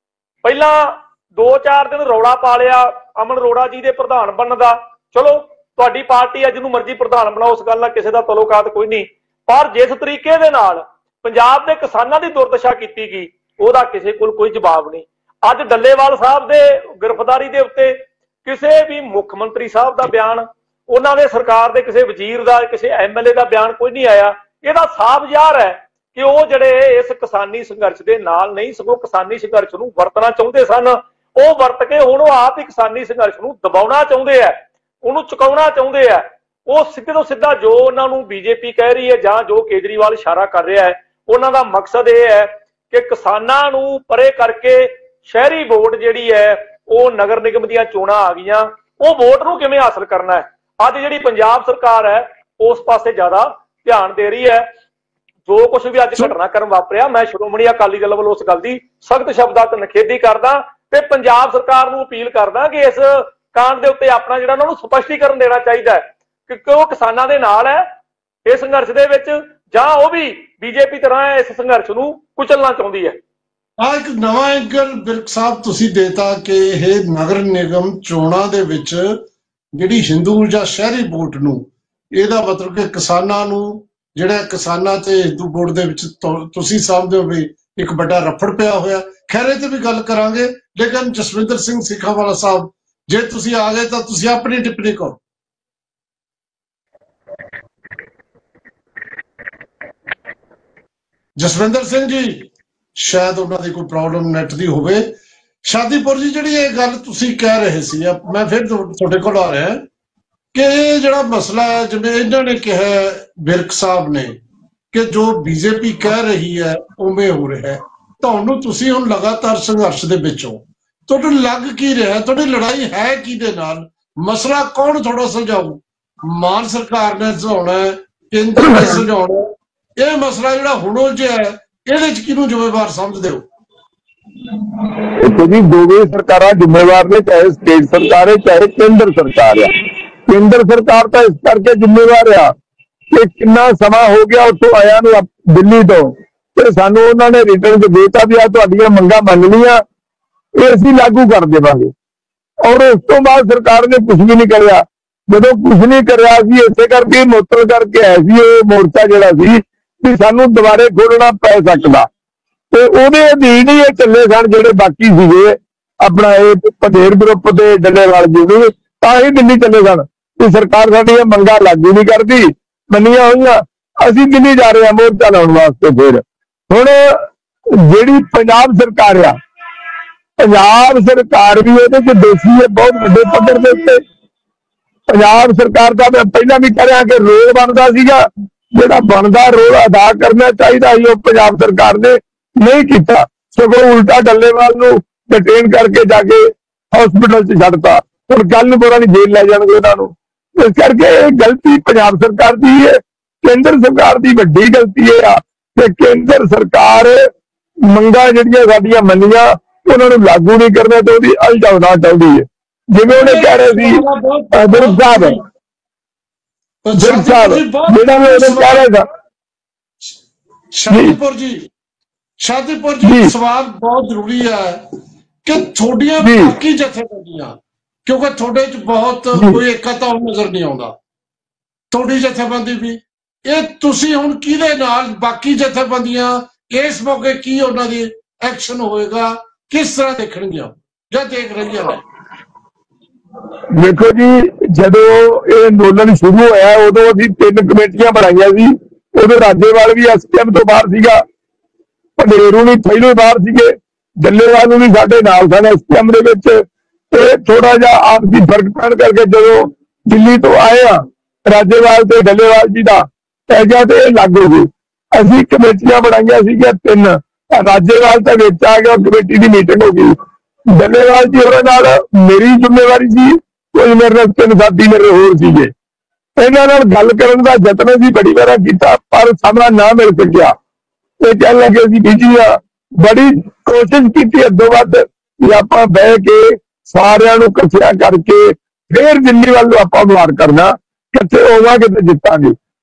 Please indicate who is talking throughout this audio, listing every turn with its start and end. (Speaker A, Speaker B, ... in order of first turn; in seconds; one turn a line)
Speaker A: 0.4-54.7
Speaker A: 55.5-67.8
Speaker A: 68.5-73.2
Speaker B: 73.8-79.2
Speaker B: 79.8-95.2
Speaker B: 101.4-105.1
Speaker B: 105.6-109.8
Speaker B: 110.5-114.4
Speaker B: 114.9-133.4
Speaker C: 128.6-129.0
Speaker C: 135.1-139.7
Speaker C: 140.3-142.5
Speaker C: 143.1-149.8
Speaker C: 150.6-151.9
Speaker C: 152.6-162.1
Speaker C: 162.7-177.2
Speaker C: 177.8-179.4
Speaker C: 180.4-184.0
Speaker C: 185.1-207.2
Speaker C: 207.9-214.0
Speaker B: 213.1-215.4
Speaker C: 214.5-215.3
Speaker B: 216.8-218.9
Speaker C: 216.9-219.0
Speaker B: 220.7-221.7
Speaker C: 220.9-221.2
Speaker B: 222.4-224.8
Speaker C: 223.0-223.3
Speaker B: 225.4-230.9
Speaker C: 226.2-226.5
Speaker B: 231.9-242.0
Speaker C: 243.7-251.2
Speaker C: 252.2-270.1
Speaker C: 270.8-275.7
Speaker C: 276.4-280.5
Speaker C: 281.2-292.6